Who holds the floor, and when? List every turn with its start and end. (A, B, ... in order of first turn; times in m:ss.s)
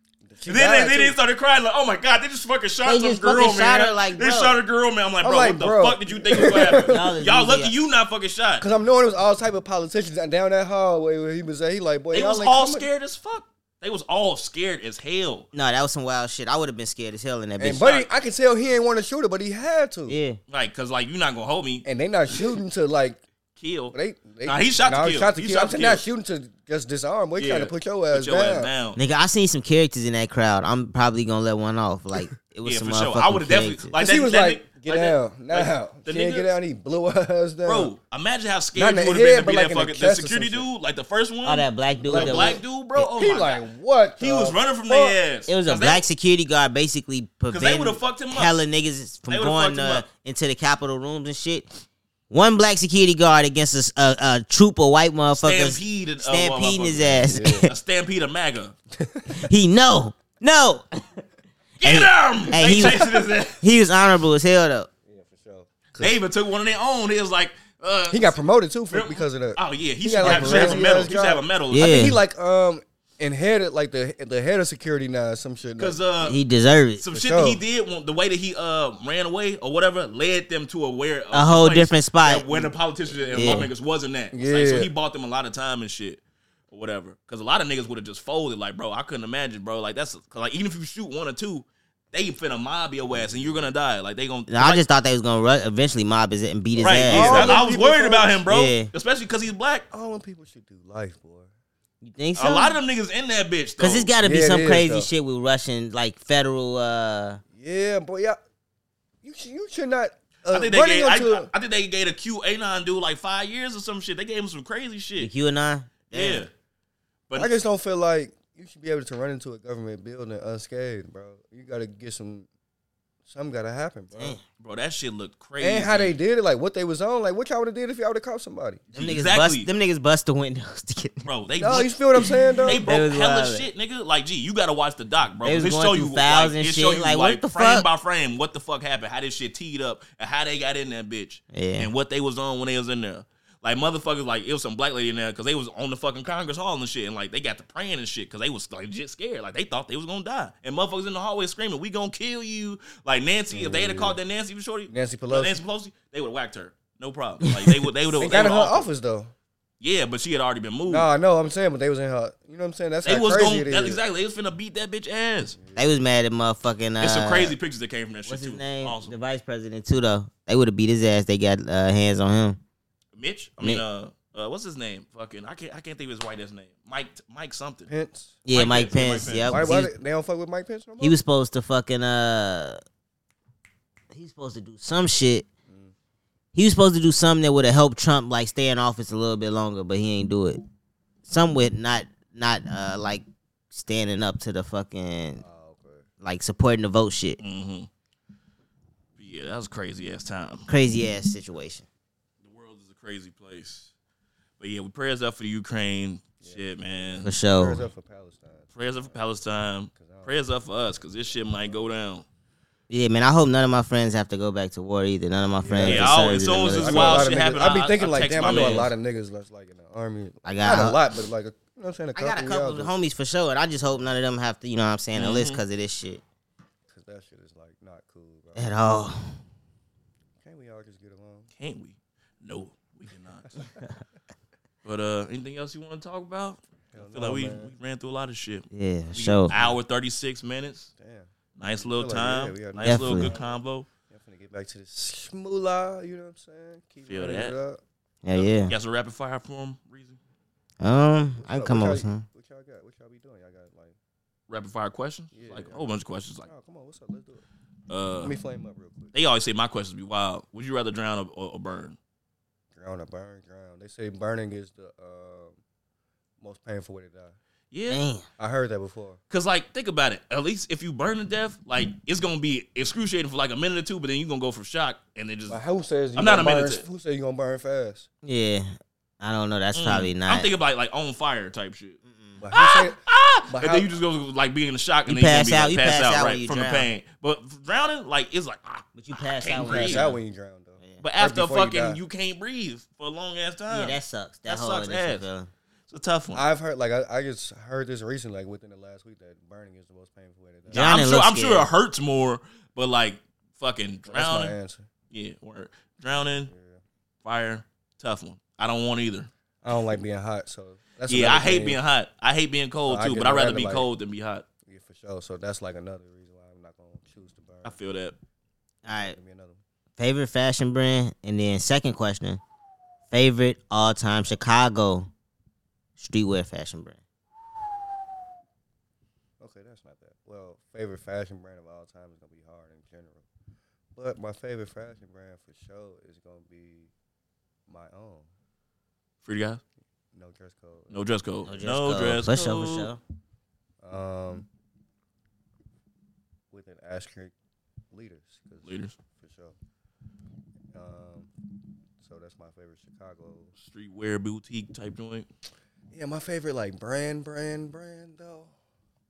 0:00.2-0:01.2 A
0:00.5-0:08.6 B
0:02.8-0:04.6 C
0:05.2-0:07.1 A
0:06.8-0:07.7 C
0:08.6-0:12.9 A
0:12.1-0:15.5 B
0:15.5-0:17.9 C
0:17.6-0:20.1 A
0:17.8-0:18.0 B
0:20.1-0:20.4 C
0:20.5-0:22.4 B
0:21.8-0:23.2 A
0:23.6-0:26.0 B
0:23.9-0:28.7 A
0:27.4-0:29.0 B
0:29.0-0:33.9 C
0:32.6-0:36.5 B
0:34.0-0:37.9 A
0:37.6-0:43.6 B
0:38.7-0:40.7 A
0:41.4-0:42.6 C
0:42.0-0:45.2 A
0:44.2-0:46.0 B
0:45.5-0:51.8 C
0:47.5-0:48.6 B
0:49.3-0:50.0 B
0:52.3-0:57.7 C
0:55.3-0:58.7 B
0:57.3-0:57.7 A
0:59.0-0:59.5 A
0:59.4-1:00.8 C
1:01.8-1:03.6 B
1:01.8-1:03.0 C
1:02.8-1:03.1 A
1:03.6-1:04.9 C
1:05.1-1:06.2 A
1:06.0-1:08.4 B
1:08.1-1:16.0 A
1:08.9-1:11.9 B
1:10.2-1:10.8 C
1:11.7-1:12.2 C
1:15.8-1:16.4 B
1:16.2-1:17.0 C
1:17.0-1:26.2 B
1:17.1-1:17.6 A
1:21.3-1:22.5 C
1:23.3-1:23.7 C
1:24.3-1:24.9 A
1:26.7-1:34.8 B
1:33.1-1:33.6 A
1:34.5-1:37.6 C
1:36.8-1:39.8 B
1:37.1-1:38.3 A
1:38.5-1:38.9 C
1:39.9-1:41.5 A
1:42.0-1:42.7 C
1:42.4-1:44.1 B
1:43.8-1:47.4 C
1:44.2-1:45.1 A
1:47.6-1:48.4 A
1:49.2-1:51.5 A
1:50.5-1:55.3 B
1:55.2-1:56.4 C
1:56.1-1:56.5 B
1:57.3-2:02.5 A
2:03.2-2:04.4 A
2:04.6-2:06.2 B
2:05.6-2:08.8 A
2:08.9-2:11.3 C
2:08.9-2:09.7 B
2:11.2-2:12.0 B
2:11.6-2:12.8 A
2:12.6-2:38.9 B
2:12.6-2:13.7 C
2:15.4-2:17.8 C
2:21.5-2:21.9 C
2:33.5-2:34.2 A
2:34.9-2:35.6 A
2:37.4-2:37.8 C
2:38.2-2:39.3 A
2:39.8-2:41.1 B
2:40.9-2:44.0 A
2:43.0-2:45.6 B
2:45.5-2:45.8 A
2:45.7-2:47.6 C
2:47.0-2:49.1 B
2:48.3-2:52.6 C
2:53.2-2:57.9 B
2:57.9-2:58.4 A
2:58.4-2:59.9 C
2:58.5-2:59.7 B
2:59.5-3:01.2 A
3:01.0-3:02.8 C
3:04.1-3:05.4 C
3:05.7-3:05.9 A
3:06.6-3:10.6 C
3:11.2-3:15.4 C
3:15.4-3:16.1 A
3:16.2-3:17.4 C
3:17.4-3:17.9 B
3:19.2-3:20.7 B
3:20.7-3:21.8 C
3:22.4-3:23.9 B
3:24.6-3:27.3 B
3:26.4-3:29.2 A
3:27.2-3:27.8 C
3:28.7-3:32.2 B
3:29.9-3:30.3 A
3:32.9-3:37.3 C
3:35.6-3:36.2 A
3:35.8-3:38.9 B
3:36.7-3:42.9 A
3:38.4-3:38.9 C
3:40.4-3:41.0 C
3:42.1-3:46.2 C
3:45.1-3:45.6 B
3:46.9-3:48.8 A
3:48.6-3:49.4 C
3:50.4-3:51.5 A
3:51.6-3:53.7 B
3:54.8-4:00.9 B
3:56.9-3:57.7 A
3:58.7-3:59.5 C
3:59.5-3:59.8 A
4:01.0-4:07.8 A
4:01.6-4:03.9 B
4:02.8-4:03.4 C
4:07.0-4:07.6 B
4:08.2-4:08.7 C
4:08.3-4:10.2 B
4:10.8-4:12.2 C
4:11.4-4:14.0 A
4:14.5-4:16.5 B
4:15.3-4:15.9 A
4:16.4-4:17.4 A
4:17.9-4:18.3 B
4:18.2-4:19.1 A
4:19.1-4:22.0 B
4:22.7-4:25.6 A
4:26.4-4:27.4 A
4:27.7-4:28.0 B
4:27.9-4:28.2 C
4:28.4-4:29.2 A
4:29.3-4:35.6 B
4:35.5-4:38.0 A
4:36.1-4:36.8 B
4:38.2-4:40.5 C
4:39.7-4:42.0 B
4:42.1-4:42.4 C
4:42.4-4:43.0 A
4:42.5-4:50.1 B
4:43.5-4:43.9 A
4:45.0-4:46.9 C
4:49.0-4:50.2 C
4:49.5-4:52.0 A
4:51.0-4:55.2 B
4:53.7-4:55.5 C
4:55.9-4:56.4 B
4:56.3-5:00.9 A
5:00.7-5:04.5 B
5:00.7-5:01.7 C
5:04.1-5:04.9 A
5:05.1-5:06.5 B
5:06.5-5:06.8 A
5:07.2-5:09.3 B
5:09.6-5:11.8 A
5:11.1-5:14.4 B
5:12.9-5:13.9 A
5:14.7-5:17.8 A
5:17.6-5:18.1 B
5:18.8-5:19.2 C
5:18.9-5:19.6 A
5:20.0-5:22.4 C
5:23.1-5:25.1 C
5:26.0-5:27.0 C
5:29.4-5:33.2 A
5:33.9-5:36.9 A
5:37.7-5:38.3 A
5:39.2-5:39.6 B
5:40.1-5:41.0 A
5:40.9-5:42.9 B
5:41.4-5:43.0 C
5:43.8-5:44.5 A
5:46.5-5:47.3 A
5:47.9-5:49.6 A
5:48.6-5:49.0 B
5:50.7-5:51.3 A
5:52.0-5:53.5 A
5:53.6-5:55.3 B
5:55.9-5:58.5 A